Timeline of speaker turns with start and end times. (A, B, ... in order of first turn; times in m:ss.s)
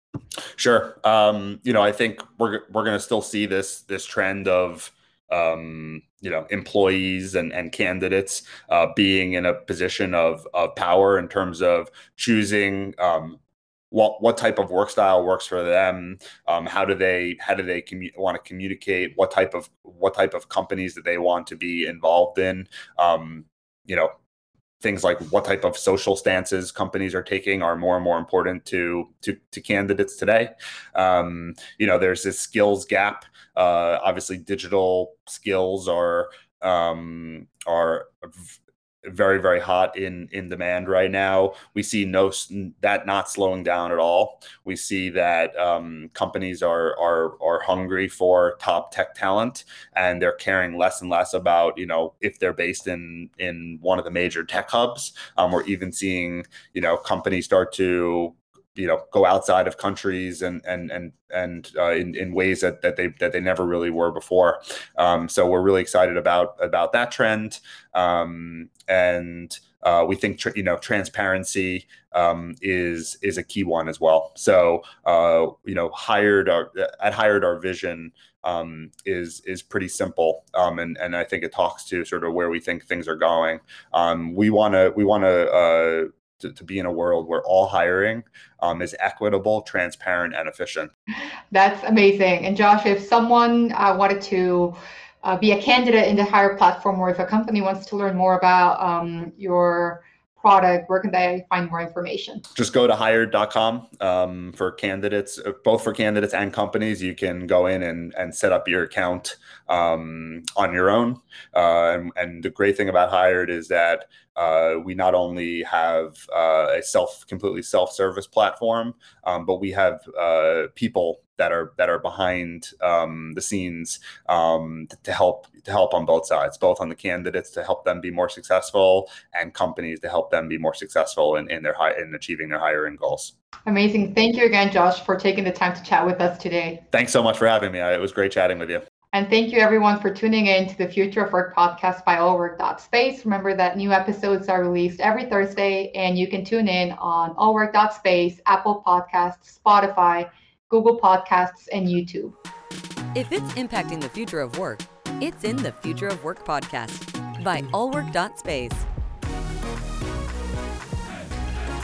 0:00.6-0:13.4 A
0:13.9-0:24.1 A
0:24.8-1:30.9 A
1:31.5-1:42.4 B
1:42.5-2:13.3 A
2:13.6-2:16.8 B
2:16.9-2:18.8 A
2:19.1-2:32.4 B
2:33.1-2:38.9 C